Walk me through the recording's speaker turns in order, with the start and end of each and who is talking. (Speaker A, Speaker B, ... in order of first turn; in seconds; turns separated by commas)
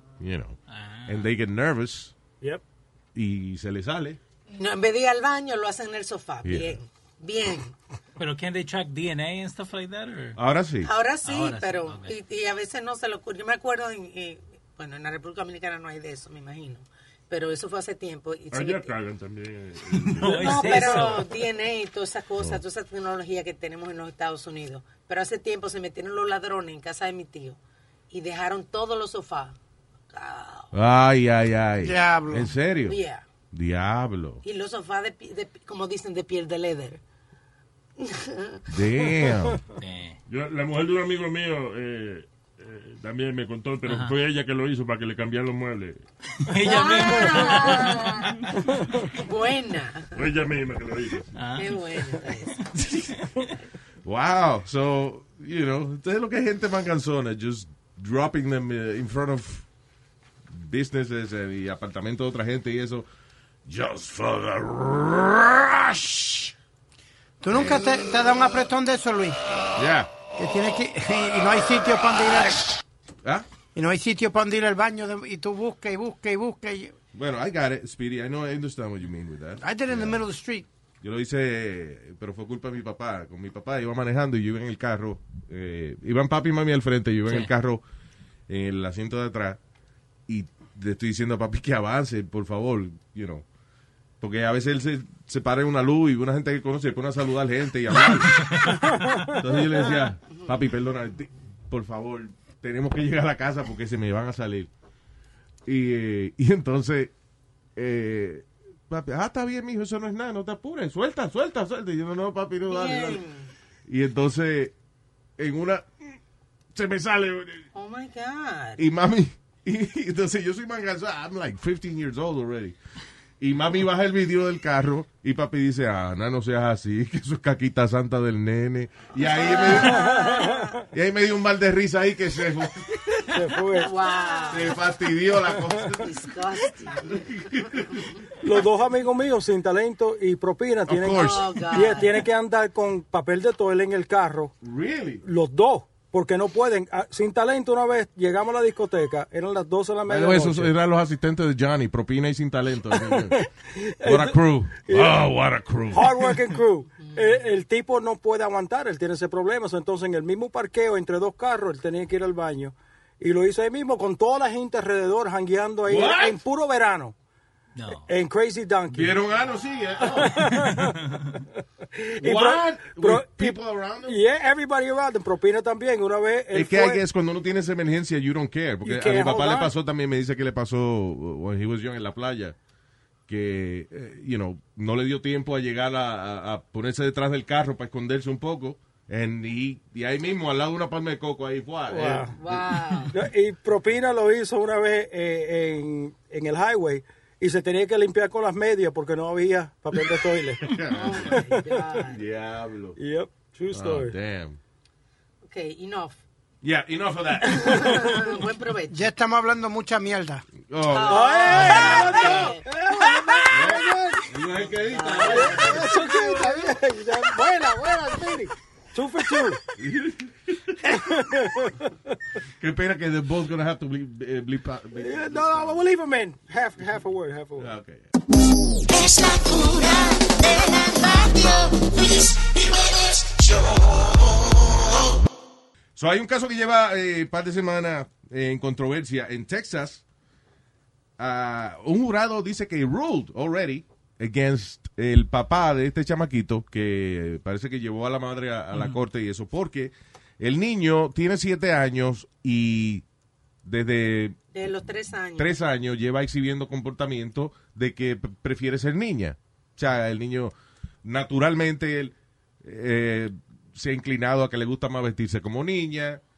Speaker A: 0.2-2.1, Speaker B: 0.7-1.2, Speaker A: 3.1-4.2, Speaker C: 4.5-7.7, Speaker A: 6.4-6.8, Speaker B: 8.2-10.4, Speaker A: 10.3-10.9, Speaker C: 10.8-18.9, Speaker B: 11.2-12.1, Speaker D: 18.5-21.1, Speaker B: 20.0-21.3, Speaker C: 20.2-27.6, Speaker C: 28.1-29.6, Speaker C: 30.1-30.7, Speaker A: 30.7-33.0, Speaker E: 31.8-32.5, Speaker C: 32.9-33.2, Speaker A: 33.5-34.4, Speaker C: 34.4-37.0, Speaker C: 38.0-38.6, Speaker A: 38.7-39.6, Speaker B: 39.8-40.1, Speaker D: 40.3-46.0, Speaker B: 43.9-44.1, Speaker B: 46.5-48.5, Speaker F: 46.6-48.3, Speaker C: 46.6-47.9, Speaker C: 49.1-50.1, Speaker D: 50.1-51.3, Speaker B: 51.3-52.6, Speaker C: 51.5-52.5, Speaker A: 54.0-59.6, Speaker A: 60.5-63.1, Speaker A: 63.6-66.5, Speaker E: 67.4-69.4, Speaker A: 67.5-67.8, Speaker A: 69.8-70.1, Speaker E: 70.4-72.7, Speaker E: 73.7-76.9, Speaker A: 77.1-80.2, Speaker E: 79.6-80.7, Speaker A: 81.0-87.8, Speaker A: 88.5-89.6, Speaker A: 90.3-93.4, Speaker A: 94.2-104.7, Speaker A: 105.7-107.1, Speaker A: 107.8-113.2, Speaker C: 112.7-113.5, Speaker A: 113.9-114.7, Speaker A: 115.4-116.2, Speaker A: 116.7-117.7, Speaker C: 117.7-118.8, Speaker A: 118.8-122.8, Speaker A: 123.4-130.2, Speaker C: 129.2-130.7, Speaker G: 129.7-130.8, Speaker A: 130.9-133.4, Speaker G: 133.3-133.9, Speaker C: 133.8-134.8, Speaker A: 134.5-136.1, Speaker C: 135.8-137.1, Speaker A: 137.0-138.2, Speaker G: 138.4-144.5, Speaker A: 140.9-141.7, Speaker C: 141.1-142.1, Speaker A: 144.6-145.2, Speaker G: 145.2-150.7, Speaker A: 150.1-153.4, Speaker G: 153.1-155.2, Speaker A: 154.0-156.3, Speaker G: 155.9-167.1, Speaker A: 165.8-166.4, Speaker B: 167.8-168.1, Speaker G: 167.9-169.1, Speaker A: 168.9-170.8, Speaker G: 170.0-171.1, Speaker G: 171.9-177.0, Speaker A: 172.2-174.2, Speaker A: 176.5-182.6, Speaker G: 178.8-179.7, Speaker A: 183.3-192.9, Speaker G: 191.9-192.3, Speaker C: 192.3-193.1, Speaker G: 193.1-200.7, Speaker A: 200.6-203.0, Speaker C: 200.9-202.2, Speaker G: 203.0-204.1, Speaker A: 203.7-204.6, Speaker C: 205.4-206.2, Speaker A: 206.6-208.1, Speaker C: 207.5-209.0, Speaker E: 208.9-210.4, Speaker A: 210.6-212.3, Speaker C: 210.9-212.7, Speaker G: 211.0-214.2, Speaker A: 213.5-216.1, Speaker C: 214.9-215.7, Speaker G: 215.2-219.6, Speaker E: 215.8-216.7, Speaker A: 219.8-220.8, Speaker G: 220.8-222.1, Speaker A: 222.6-225.8, Speaker G: 224.9-227.7, Speaker A: 227.6-228.1, Speaker F: 229.6-229.9, Speaker A: 235.9-240.0, Speaker A: 241.2-253.0, Speaker A: 253.6-254.4, Speaker C: 254.5-255.5, Speaker A: 255.3-266.2